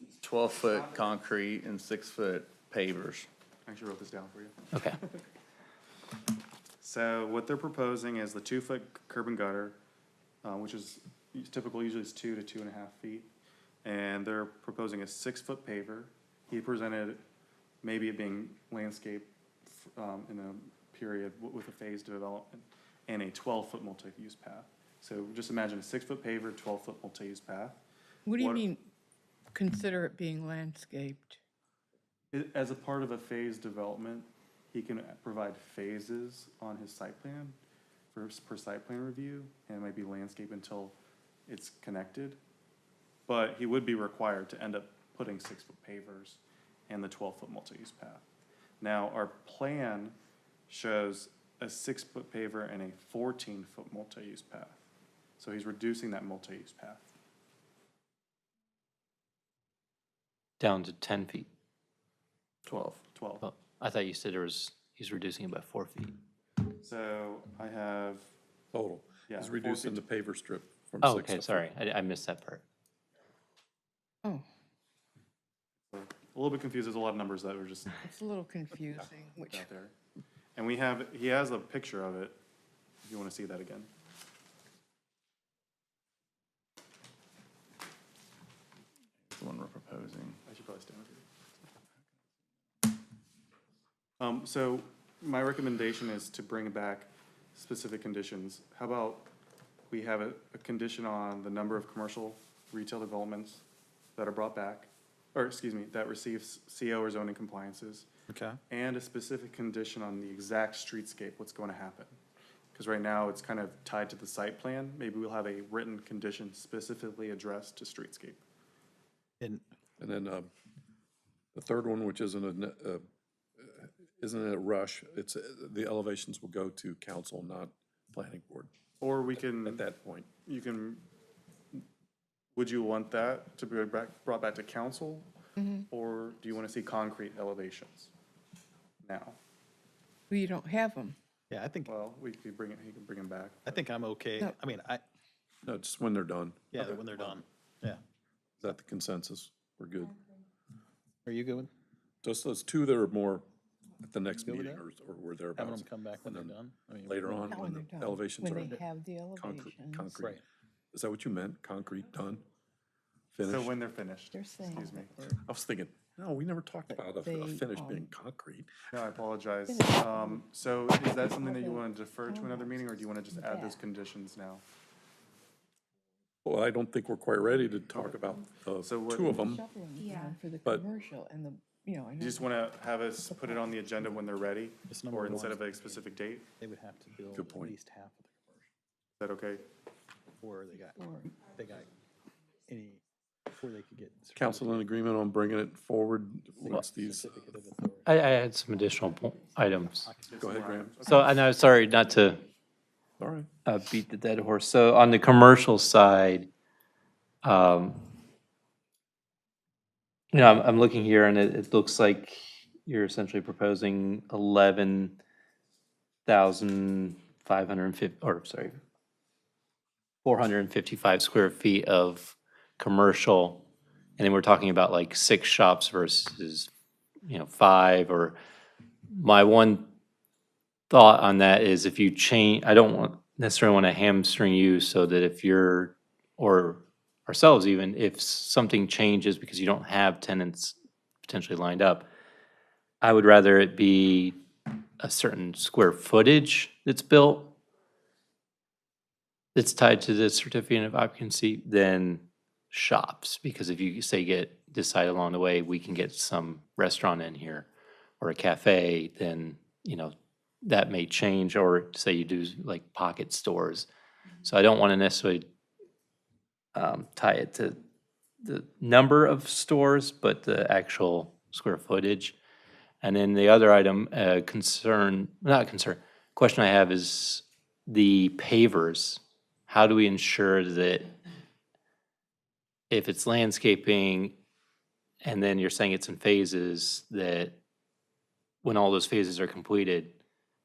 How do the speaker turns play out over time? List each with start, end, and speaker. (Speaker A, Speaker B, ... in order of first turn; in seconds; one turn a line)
Speaker A: 0.2-3.3
Speaker B: 3.6-5.2
Speaker C: 4.7-5.0
Speaker B: 6.8-9.8
Speaker B: 10.4-13.3
Speaker B: 13.8-17.2
Speaker B: 17.8-27.8
Speaker D: 28.2-28.8
Speaker B: 28.4-28.7
Speaker D: 29.5-31.4
Speaker B: 32.3-37.6
Speaker B: 38.1-41.0
Speaker B: 41.5-42.4
Speaker B: 43.3-48.2
Speaker B: 48.8-50.1
Speaker B: 50.7-54.8
Speaker B: 55.4-57.1
Speaker C: 60.6-61.5
Speaker B: 63.1-63.4
Speaker C: 63.4-66.2
Speaker B: 66.8-68.3
Speaker E: 68.7-71.6
Speaker B: 69.3-70.0
Speaker C: 71.0-72.6
Speaker B: 75.9-78.0
Speaker D: 78.0-79.7
Speaker B: 79.0-79.9
Speaker B: 80.5-82.4
Speaker B: 83.0-83.9
Speaker A: 89.3-90.4
Speaker B: 90.5-91.3
Speaker B: 94.2-99.3
Speaker B: 99.9-103.6
Speaker B: 104.2-108.1
Speaker F: 108.3-108.6
Speaker B: 108.7-112.1
Speaker B: 112.7-118.4
Speaker E: 120.0-120.5
Speaker E: 121.5-123.0
Speaker E: 123.6-128.7
Speaker B: 129.0-129.8
Speaker E: 129.5-130.3
Speaker B: 130.4-131.0
Speaker B: 132.5-135.3
Speaker D: 135.6-135.8
Speaker B: 135.9-138.1
Speaker B: 139.0-139.4
Speaker D: 140.3-141.2
Speaker F: 141.5-141.9
Speaker B: 141.8-143.8
Speaker F: 143.7-145.0
Speaker E: 145.6-147.4
Speaker F: 146.7-148.0
Speaker E: 148.6-150.2
Speaker F: 151.2-151.7
Speaker E: 152.2-153.4
Speaker E: 154.0-158.8
Speaker F: 154.4-154.8
Speaker F: 155.5-157.6
Speaker D: 157.4-160.1
Speaker E: 159.3-160.4
Speaker F: 160.1-160.4
Speaker E: 160.9-162.4
Speaker E: 163.3-163.7
Speaker B: 163.4-165.1
Speaker D: 164.3-165.4
Speaker E: 165.3-168.7
Speaker D: 166.9-168.1
Speaker B: 168.9-174.6
Speaker D: 169.7-170.4
Speaker D: 171.2-173.8
Speaker E: 176.4-179.6
Speaker B: 178.8-179.4
Speaker D: 179.4-182.5
Speaker B: 182.2-186.4
Speaker D: 183.2-183.9
Speaker F: 184.9-188.7
Speaker E: 187.3-187.7
Speaker B: 189.2-189.6
Speaker F: 190.4-191.9
Speaker D: 190.9-191.3
Speaker F: 192.7-195.0
Speaker E: 194.3-197.4
Speaker F: 196.6-198.1
Speaker C: 198.0-200.1
Speaker F: 199.8-200.4
Speaker B: 200.3-201.4
Speaker E: 200.4-201.0
Speaker C: 201.0-202.4
Speaker E: 203.2-203.5
Speaker C: 203.7-206.5
Speaker C: 207.4-208.0
Speaker C: 210.3-215.2
Speaker C: 216.2-218.8
Speaker C: 220.2-223.7
Speaker C: 224.2-226.7
Speaker C: 227.3-228.4
Speaker C: 229.1-229.9
Speaker C: 230.9-242.1
Speaker C: 243.0-244.3
Speaker C: 245.0-247.6
Speaker C: 249.5-257.7
Speaker C: 258.2-263.9
Speaker C: 264.4-265.5
Speaker C: 266.7-267.8
Speaker C: 268.4-272.4
Speaker C: 273.0-281.1
Speaker C: 282.9-284.3
Speaker C: 285.2-287.6
Speaker C: 288.6-290.1